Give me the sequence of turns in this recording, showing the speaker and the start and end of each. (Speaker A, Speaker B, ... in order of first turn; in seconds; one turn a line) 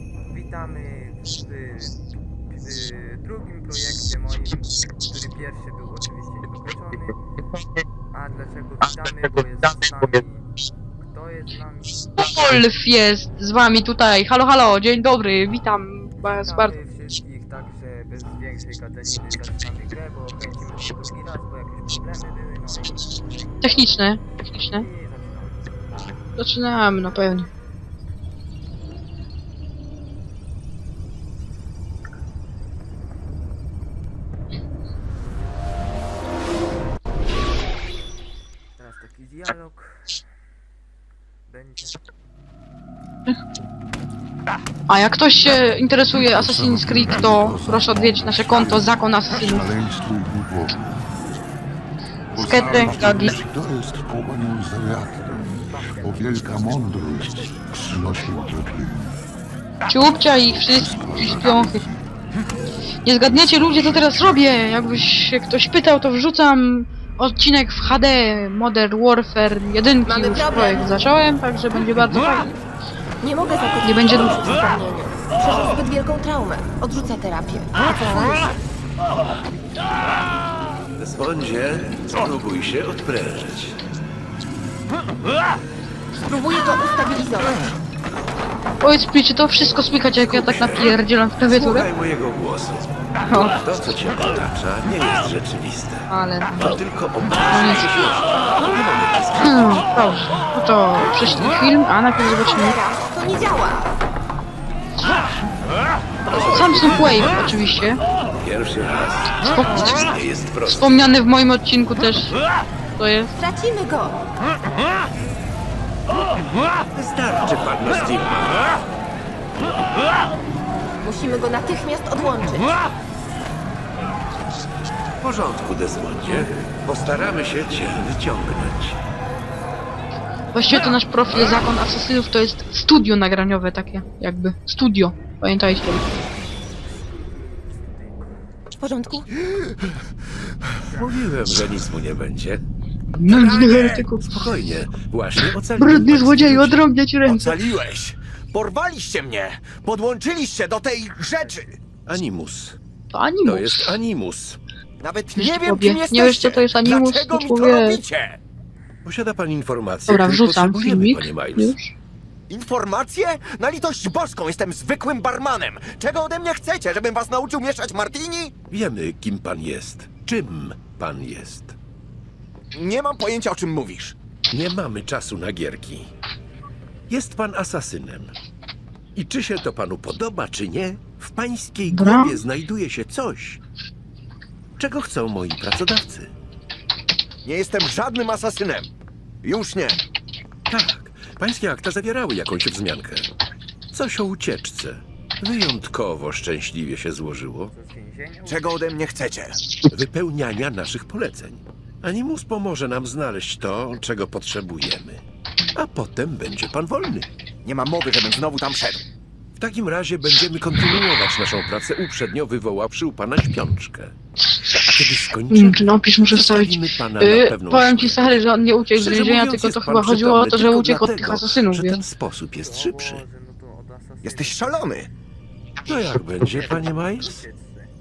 Speaker A: 0.2-2.0
Speaker A: 2.5-7.2
Speaker A: 8.1-12.2
Speaker B: 12.2-16.7
Speaker A: 16.2-25.7
Speaker B: 23.6-24.8
Speaker B: 26.4-27.5
Speaker A: 38.8-40.2
Speaker A: 41.5-42.0
Speaker B: 44.9-49.7
Speaker C: 46.1-50.7
Speaker C: 52.3-57.3
Speaker B: 52.4-53.4
Speaker A: 52.8-53.5
Speaker A: 55.0-57.6
Speaker D: 57.5-57.9
Speaker C: 57.9-59.1
Speaker A: 58.2-58.6
Speaker B: 59.9-61.8
Speaker C: 60.6-61.8
Speaker B: 63.0-72.5
Speaker C: 63.3-64.2
Speaker E: 70.0-71.0
Speaker E: 73.2-78.6
Speaker B: 73.8-74.4
Speaker D: 81.0-83.8
Speaker E: 86.2-87.6
Speaker B: 88.8-91.8
Speaker D: 90.1-90.9
Speaker D: 91.5-92.8
Speaker D: 93.4-96.1
Speaker B: 96.1-96.7
Speaker D: 96.6-99.8
Speaker B: 97.5-97.9
Speaker B: 99.4-102.8
Speaker E: 102.3-104.0
Speaker D: 106.3-107.4
Speaker B: 106.3-108.0
Speaker D: 108.3-111.0
Speaker B: 109.5-109.8
Speaker B: 110.7-112.3
Speaker B: 113.0-113.3
Speaker E: 113.3-114.2
Speaker D: 116.9-118.7
Speaker E: 121.0-122.8
Speaker D: 125.2-129.0
Speaker B: 130.5-136.0
Speaker A: 136.8-138.7
Speaker E: 138.8-139.3
Speaker A: 140.8-141.2
Speaker D: 140.9-142.6
Speaker B: 143.1-144.4
Speaker D: 143.2-146.8
Speaker B: 145.8-147.6
Speaker F: 147.2-151.8
Speaker D: 152.1-152.8
Speaker B: 153.1-153.8
Speaker D: 153.4-154.6
Speaker F: 155.0-158.4
Speaker B: 155.4-158.0
Speaker D: 159.0-161.7
Speaker B: 160.1-161.9
Speaker F: 162.5-168.5
Speaker D: 168.7-171.7
Speaker F: 172.7-174.2
Speaker D: 174.5-176.1
Speaker D: 177.1-178.3
Speaker D: 179.2-183.6
Speaker B: 181.9-182.4
Speaker D: 184.8-186.3
Speaker F: 187.4-188.9
Speaker F: 189.4-190.0
Speaker D: 190.7-193.3
Speaker D: 193.9-197.7
Speaker A: 197.7-199.0
Speaker F: 198.4-199.6
Speaker D: 199.8-205.2
Speaker D: 205.8-207.3
Speaker F: 207.6-209.0
Speaker D: 209.6-214.1
Speaker D: 214.7-218.4
Speaker B: 215.5-222.0
Speaker D: 218.9-223.2
Speaker A: 222.6-225.0
Speaker F: 224.2-225.1
Speaker D: 225.8-227.4
Speaker A: 226.4-227.9